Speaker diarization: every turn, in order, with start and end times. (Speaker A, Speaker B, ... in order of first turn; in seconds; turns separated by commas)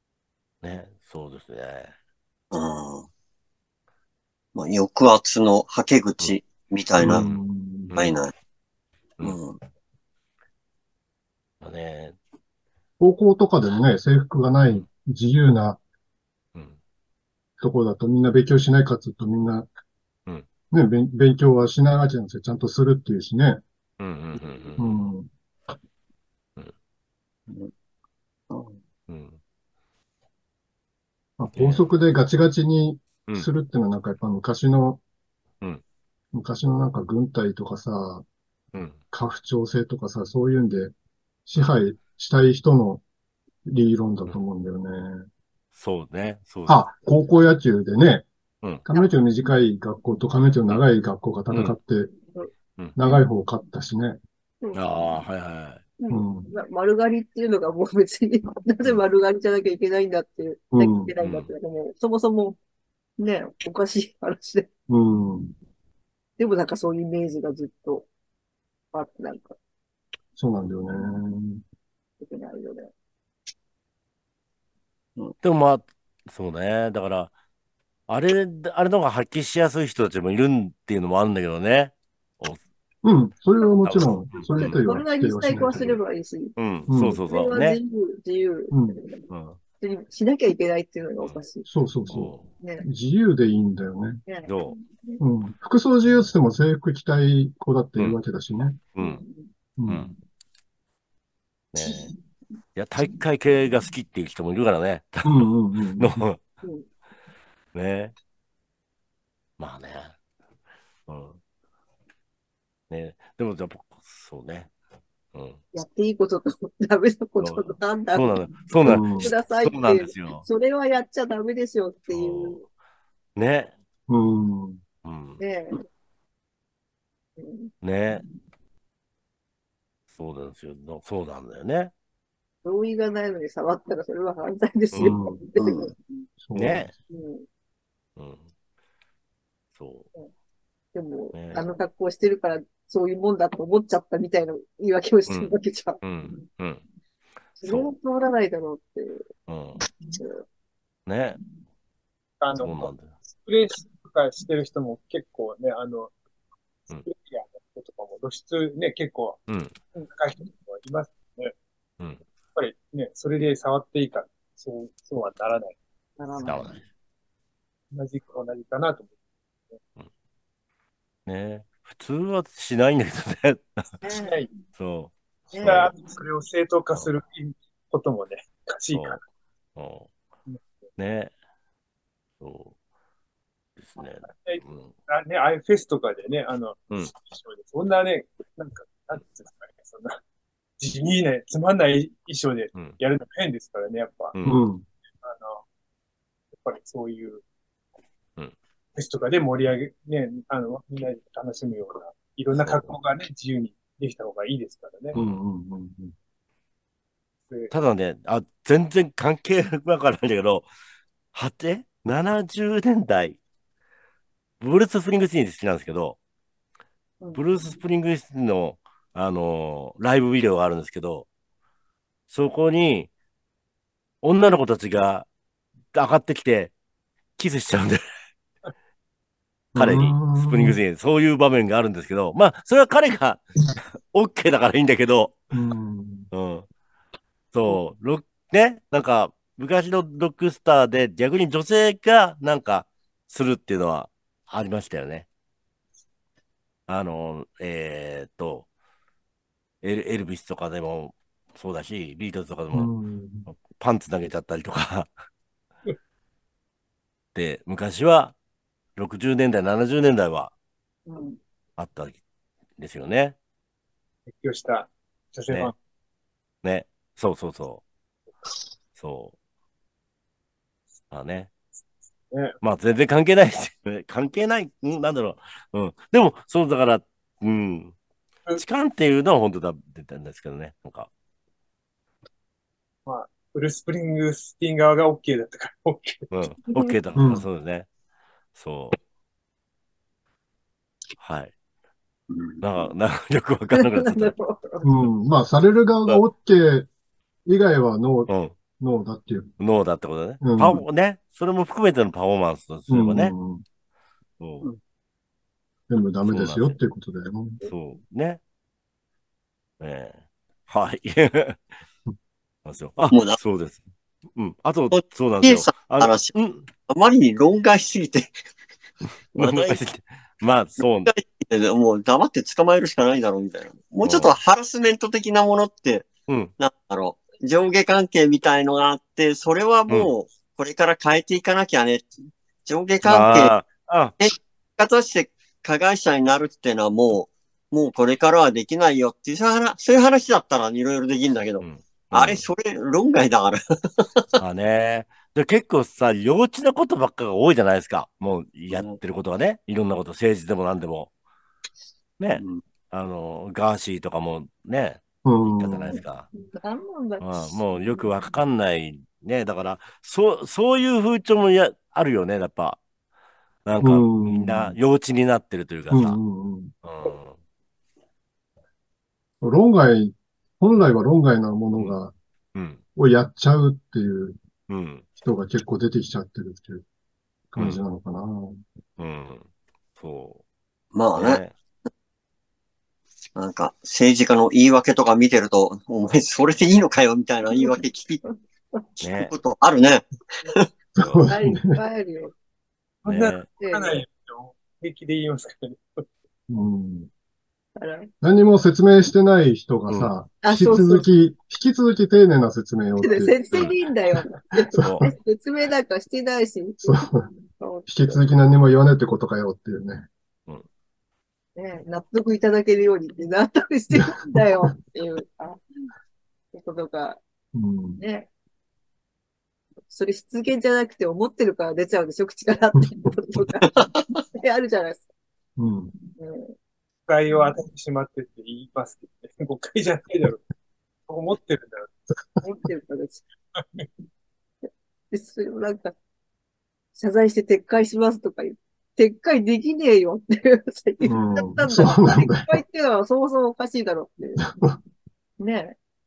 Speaker A: 0.6-1.9, Speaker B: 2.5-3.0, Speaker B: 4.5-7.2, Speaker C: 5.9-7.0, Speaker D: 7.0-8.0, Speaker A: 7.0-8.2, Speaker B: 8.0-8.3, Speaker B: 9.3-9.6, Speaker A: 11.6-12.2, Speaker D: 13.0-15.8, Speaker D: 17.6-19.7, Speaker D: 20.7-23.6, Speaker A: 24.0-25.1, Speaker D: 24.8-25.3, Speaker C: 28.5-28.8, Speaker A: 29.1-29.4, Speaker D: 31.4-35.0, Speaker A: 31.6-31.8, Speaker D: 36.3-38.2, Speaker D: 39.1-40.9, Speaker D: 41.5-43.0, Speaker D: 43.7-45.2, Speaker A: 45.7-46.8, Speaker D: 46.7-48.3, Speaker D: 48.8-52.1, Speaker D: 53.0-54.2, Speaker E: 54.6-55.1, Speaker A: 54.7-55.8, Speaker E: 56.0-62.6, Speaker D: 56.1-56.5, Speaker D: 60.7-61.1, Speaker A: 61.2-61.5, Speaker E: 63.2-64.7, Speaker D: 64.9-65.5, Speaker E: 66.4-68.1, Speaker E: 68.9-69.5, Speaker D: 70.4-71.6, Speaker E: 72.2-72.9, Speaker A: 75.4-77.3, Speaker A: 78.1-82.6, Speaker D: 83.0-86.0, Speaker A: 83.8-84.8, Speaker E: 84.5-86.5, Speaker A: 86.5-87.8, Speaker D: 86.9-87.2, Speaker E: 87.1-89.2, Speaker D: 88.7-89.0, Speaker A: 89.3-89.6, Speaker E: 89.8-91.6, Speaker D: 91.6-94.2, Speaker A: 92.1-92.5, Speaker E: 94.2-95.2, Speaker A: 94.4-94.7, Speaker D: 95.2-98.8, Speaker A: 98.9-99.2, Speaker E: 99.0-99.5, Speaker D: 99.8-100.1, Speaker A: 99.9-100.1, Speaker A: 101.7-102.1, Speaker E: 101.8-102.0, Speaker A: 102.8-105.5, Speaker D: 105.2-106.2, Speaker A: 106.0-106.4, Speaker A: 107.7-108.1, Speaker A: 109.6-110.1, Speaker A: 111.1-111.4, Speaker A: 112.9-114.7, Speaker A: 115.3-115.6, Speaker E: 115.7-122.6, Speaker A: 118.1-120.5, Speaker D: 118.8-119.3, Speaker A: 122.1-122.6, Speaker A: 123.3-123.7, Speaker D: 124.1-124.8, Speaker A: 125.0-125.4, Speaker E: 125.4-125.8, Speaker E: 127.4-127.7, Speaker A: 127.8-128.2, Speaker A: 130.1-131.9, Speaker E: 132.6-136.3, Speaker D: 135.0-135.4, Speaker C: 135.6-135.9, Speaker D: 136.4-136.9, Speaker A: 136.5-136.9, Speaker E: 137.1-137.4, Speaker A: 138.2-138.5, Speaker A: 139.7-140.1, Speaker E: 140.9-146.4, Speaker A: 141.3-141.6, Speaker A: 145.3-145.5, Speaker A: 146.0-146.8, Speaker E: 147.6-149.2, Speaker A: 147.6-147.9, Speaker A: 149.5-149.8, Speaker E: 150.1-150.4, Speaker A: 151.1-151.4, Speaker C: 152.4-156.1, Speaker A: 152.6-153.1, Speaker C: 157.0-159.4, Speaker A: 159.5-159.7, Speaker C: 160.1-161.5, Speaker C: 162.5-165.7, Speaker E: 166.2-166.7, Speaker A: 166.4-166.8, Speaker C: 167.9-169.1, Speaker A: 171.2-173.9, Speaker E: 174.0-174.5, Speaker C: 174.1-174.5, Speaker A: 174.8-175.9, Speaker C: 175.5-179.2, Speaker E: 175.6-175.9, Speaker A: 178.9-179.2, Speaker A: 179.8-180.1, Speaker A: 181.0-181.3, Speaker A: 182.4-182.7, Speaker A: 183.8-184.9, Speaker C: 184.3-190.2, Speaker C: 190.8-194.3, Speaker A: 194.3-194.6, Speaker D: 194.4-194.8, Speaker C: 195.2-195.6, Speaker C: 196.5-197.4, Speaker C: 198.9-205.2, Speaker A: 202.5-202.9, Speaker A: 205.1-205.4, Speaker D: 205.1-206.1, Speaker A: 207.7-210.7, Speaker A: 211.3-213.4, Speaker A: 214.6-216.2, Speaker E: 217.2-217.6, Speaker A: 217.3-221.2, Speaker A: 222.3-223.1, Speaker A: 224.2-225.2, Speaker A: 225.9-226.7, Speaker A: 227.4-228.0, Speaker D: 229.7-230.8, Speaker A: 229.8-233.4, Speaker A: 234.1-235.4, Speaker D: 235.5-236.3, Speaker A: 236.3-236.7, Speaker A: 237.5-245.2, Speaker A: 246.9-248.7, Speaker A: 249.8-252.9, Speaker D: 252.7-253.5, Speaker A: 253.5-255.1, Speaker A: 257.3-258.3, Speaker A: 258.9-260.5, Speaker E: 261.1-261.4, Speaker A: 261.8-262.2, Speaker A: 262.8-263.4, Speaker C: 264.3-265.7, Speaker A: 266.6-267.8, Speaker A: 269.0-269.3, Speaker A: 271.1-271.5, Speaker C: 272.3-272.5, Speaker A: 272.6-277.9, Speaker A: 278.6-281.1, Speaker C: 283.1-286.3, Speaker A: 286.3-287.9, Speaker E: 286.6-287.0, Speaker D: 287.1-287.5, Speaker A: 288.5-289.0, Speaker A: 291.2-291.5, Speaker C: 292.3-292.6, Speaker A: 292.6-294.3, Speaker E: 293.7-294.9, Speaker D: 294.8-296.9, Speaker D: 297.4-299.5, Speaker A: 298.3-298.6, Speaker A: 299.6-303.3, Speaker D: 300.4-300.8, Speaker D: 302.9-303.6, Speaker A: 304.4-304.7, Speaker D: 305.9-307.6, Speaker A: 306.3-306.8, Speaker A: 307.6-308.4, Speaker A: 309.8-311.6, Speaker A: 312.6-313.8, Speaker A: 314.4-316.7, Speaker B: 314.9-316.3, Speaker B: 316.9-318.1, Speaker A: 319.3-321.1, Speaker C: 319.4-319.7, Speaker B: 321.2-326.0, Speaker C: 323.6-324.2, Speaker A: 324.0-324.3, Speaker C: 324.8-326.0, Speaker B: 326.6-332.0, Speaker C: 327.0-327.3, Speaker C: 329.1-330.0, Speaker C: 332.7-333.3, Speaker B: 332.7-333.5, Speaker A: 333.0-334.1, Speaker C: 334.8-336.9, Speaker B: 335.3-336.2, Speaker B: 336.9-341.4, Speaker C: 339.3-341.6, Speaker A: 341.6-342.4, Speaker B: 342.1-343.5, Speaker A: 344.4-351.1, Speaker A: 352.2-356.3, Speaker D: 355.2-356.0, Speaker E: 356.4-358.1, Speaker A: 357.2-362.8, Speaker A: 363.6-366.2, Speaker D: 363.8-364.8, Speaker D: 365.9-366.7, Speaker A: 366.8-367.4, Speaker D: 369.4-372.1, Speaker A: 372.5-372.8, Speaker D: 372.9-374.4, Speaker A: 374.7-375.1, Speaker D: 375.2-376.8, Speaker D: 377.5-378.6, Speaker A: 379.0-379.5, Speaker A: 380.0-380.4, Speaker B: 380.9-381.4, Speaker C: 381.0-381.4, Speaker A: 381.1-381.5, Speaker B: 383.4-387.9, Speaker C: 383.6-385.6, Speaker C: 387.3-388.2, Speaker E: 387.5-388.8, Speaker A: 389.0-389.3, Speaker B: 389.2-390.0, Speaker D: 390.9-391.7, Speaker E: 391.3-392.3, Speaker C: 393.0-396.0, Speaker A: 393.1-393.4, Speaker E: 393.5-394.0, Speaker D: 396.5-397.1, Speaker E: 397.8-398.1, Speaker D: 398.2-403.7, Speaker E: 400.4-401.1, Speaker E: 403.0-408.3, Speaker D: 404.7-405.1, Speaker A: 404.8-405.0, Speaker D: 406.8-407.2, Speaker D: 407.9-410.1, Speaker E: 411.6-415.6, Speaker E: 416.5-417.2, Speaker D: 417.5-418.0, Speaker E: 418.0-418.3, Speaker E: 419.9-425.1, Speaker D: 425.6-425.9, Speaker E: 426.1-426.5, Speaker C: 427.1-430.4, Speaker C: 431.1-431.9, Speaker E: 432.4-433.2, Speaker C: 433.6-433.9, Speaker E: 435.1-435.9, Speaker E: 436.9-444.4, Speaker D: 441.0-442.6, Speaker E: 445.4-445.7